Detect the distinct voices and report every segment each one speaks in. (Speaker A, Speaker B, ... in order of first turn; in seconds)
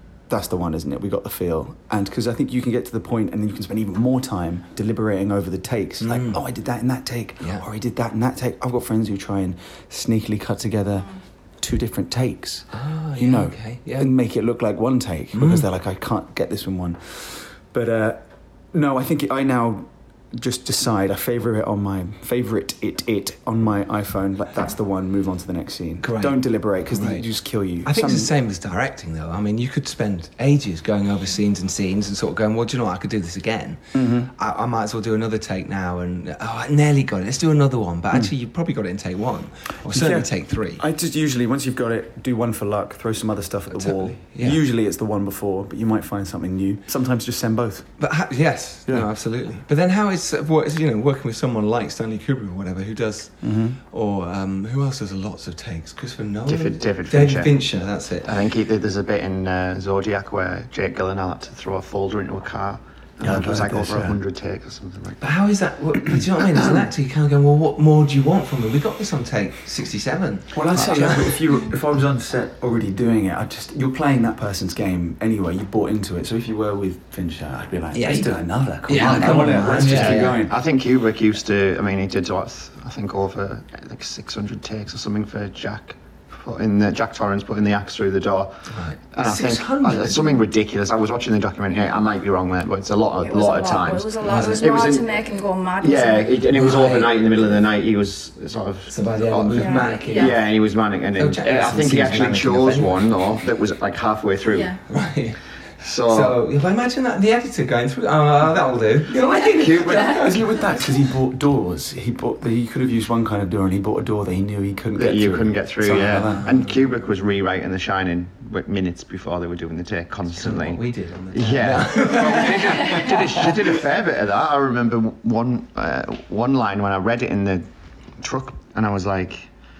Speaker A: 0.3-28.3, 33.9-34.3, 39.9-47.9, 53.4-53.8, 63.2-64.2, 70.5-80.6, 109.9-116.5
Speaker B: 6.0-6.4, 12.7-14.1, 15.3-15.6, 26.0-26.4, 26.9-27.2, 27.8-40.8, 43.7-44.6, 48.0-53.3, 53.9-58.3, 65.2-71.4, 77.9-80.4, 88.7-90.4, 94.2-94.7, 96.5-97.4, 98.9-100.4, 101.2-103.2, 104.9-105.4, 106.1-110.4, 116.3-116.7, 120.3-123.8
Speaker C: 56.5-57.6, 58.2-65.2, 79.5-95.1, 95.8-104.8, 105.8-106.4, 109.3-110.3, 115.0-127.7, 128.2-129.5
Speaker D: 93.2-96.4, 99.5-100.3, 104.5-104.8